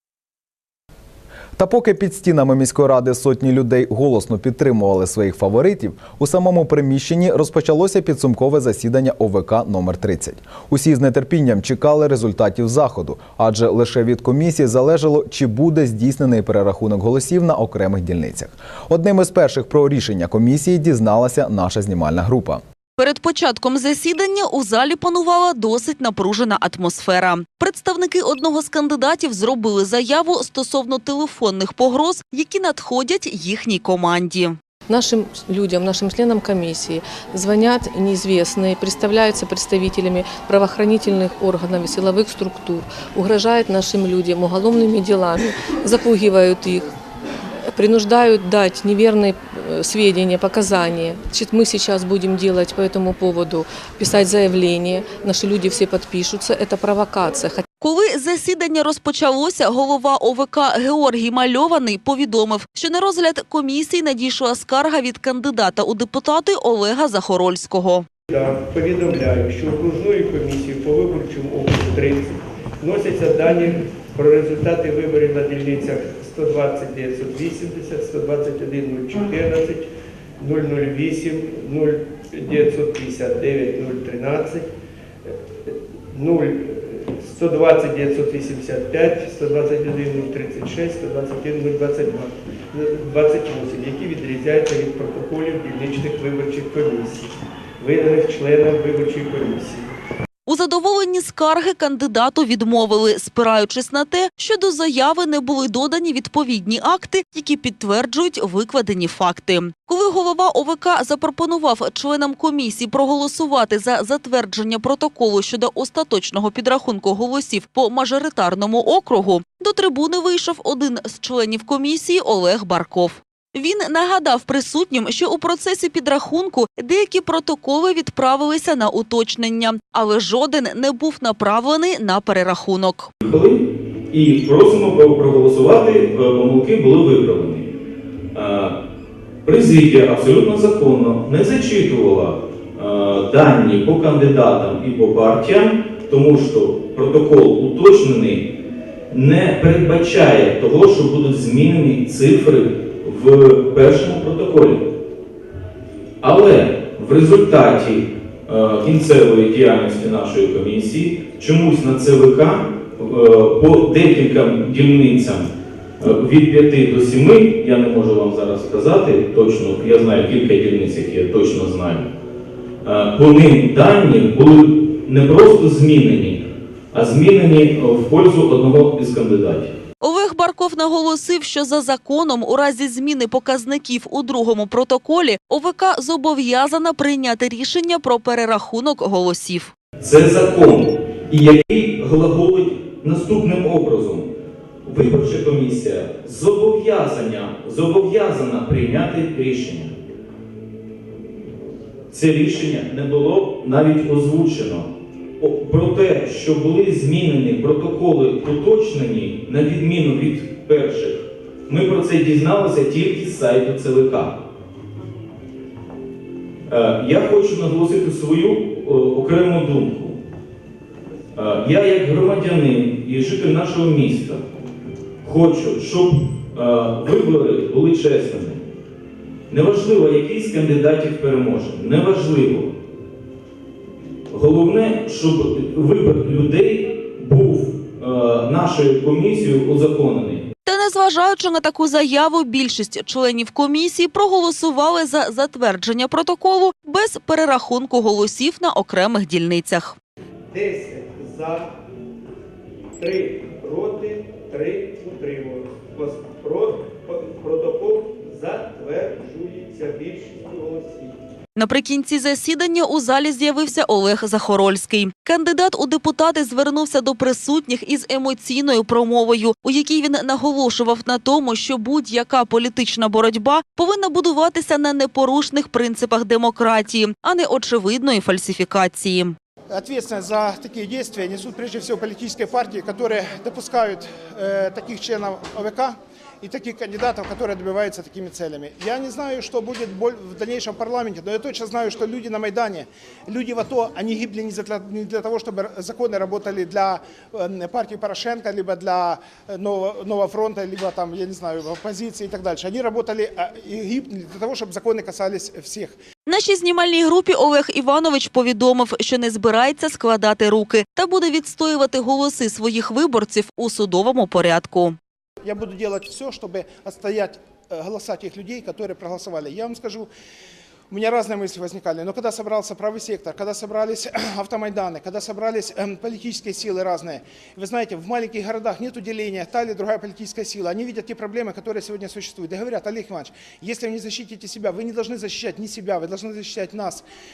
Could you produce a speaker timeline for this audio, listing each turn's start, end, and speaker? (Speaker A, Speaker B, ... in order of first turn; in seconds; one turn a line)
Speaker A: 1.6-22.6
Speaker B: 23.0-34.6
Speaker C: 34.9-46.9
Speaker C: 47.8-57.6
Speaker B: 57.8-68.1
Speaker D: 68.3-84.7
Speaker D: 85.3-99.9
Speaker B: 100.5-133.1
Speaker E: 133.2-137.7
Speaker E: 138.3-138.8
Speaker E: 139.4-148.5
Speaker E: 149.1-154.9
Speaker E: 156.2-172.1
Speaker E: 172.8-179.7
Speaker B: 180.0-189.7
Speaker E: 190.0-194.3
Speaker E: 194.8-199.9
Speaker E: 202.1-214.4
Speaker E: 216.7-220.2
Speaker E: 221.3-224.4
Speaker E: 225.2-228.6
Speaker E: 229.5-232.7
Speaker E: 234.3-240.5
Speaker B: 240.7-250.0
Speaker D: 250.5-251.7
Speaker D: 253.0-261.2
Speaker B: 261.6-279.4
Speaker F: 279.7-306.0
Speaker B: 306.3-315.0
Speaker F: 315.4-320.1
Speaker F: 320.9-337.0